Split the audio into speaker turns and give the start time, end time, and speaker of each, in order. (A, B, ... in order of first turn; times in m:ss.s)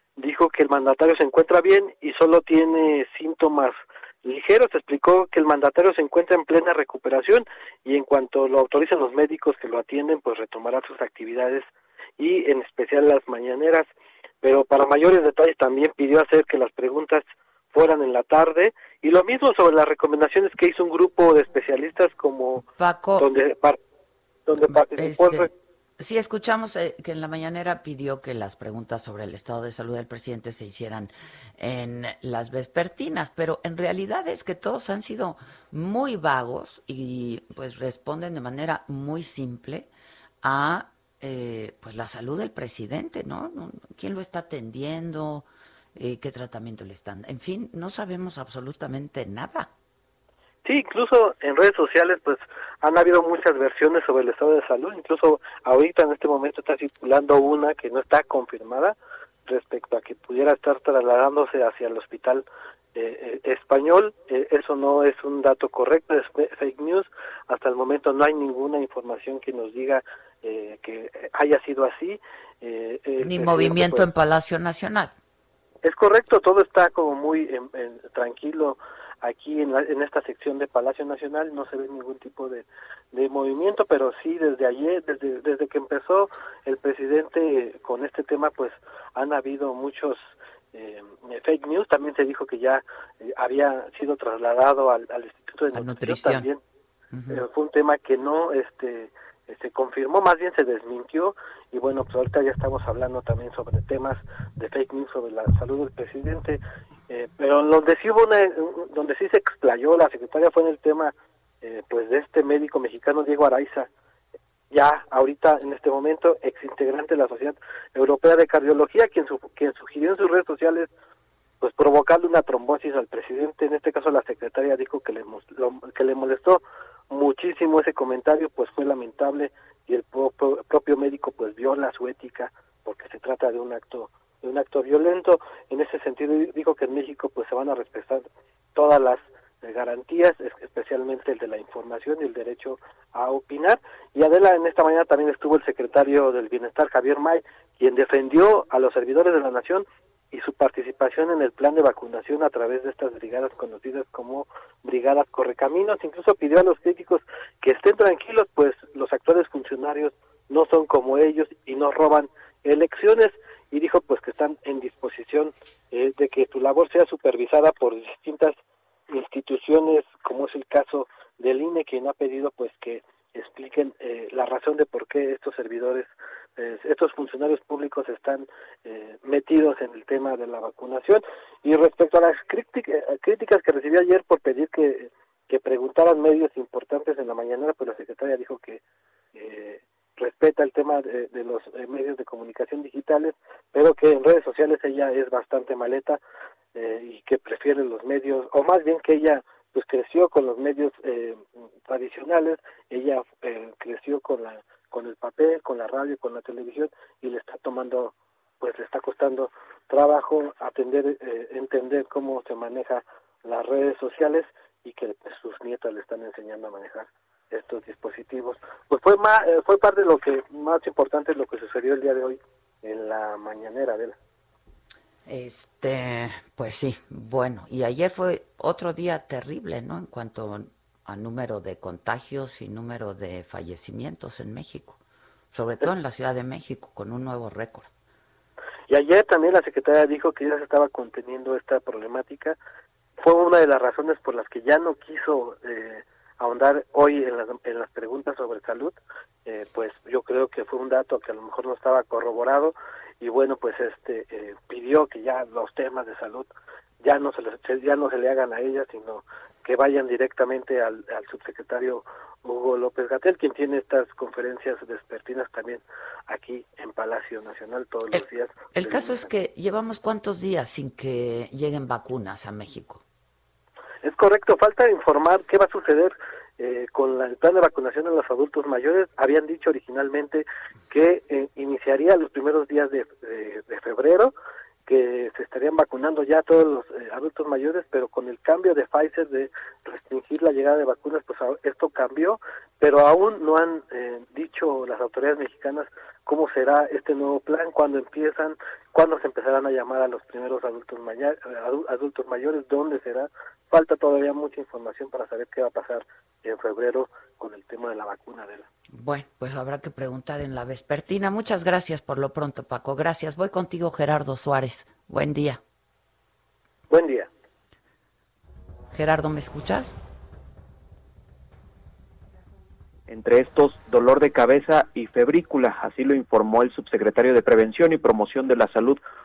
0:00.2-0:13.9 A
0:14.4-0:22.6 A
0:22.8-0:23.3 B
0:23.2-0:23.8 A
0:24.5-0:25.5 A
0:24.7-0:39.9 B
0:40.4-0:49.7 B
0:50.6-1:14.1 A
1:13.2-1:15.2 B
1:15.8-1:36.6 A
1:35.7-1:36.5 B
1:37.1-1:37.4 B
1:37.3-1:53.9 A
1:54.7-2:00.9 A
2:01.6-3:08.8 A
3:09.4-3:16.2 A
3:16.7-3:44.2 A
3:45.2-3:55.0 B
3:55.5-3:57.9 B
3:58.9-4:02.6 A
4:03.2-4:16.5 A
4:17.0-4:29.3 A
4:28.7-4:33.0 B
4:34.0-4:44.3 A
4:44.9-5:08.7 A
5:08.9-5:15.6 B
5:16.9-5:17.3 A
5:18.9-5:20.0 B
5:23.1-5:29.0 C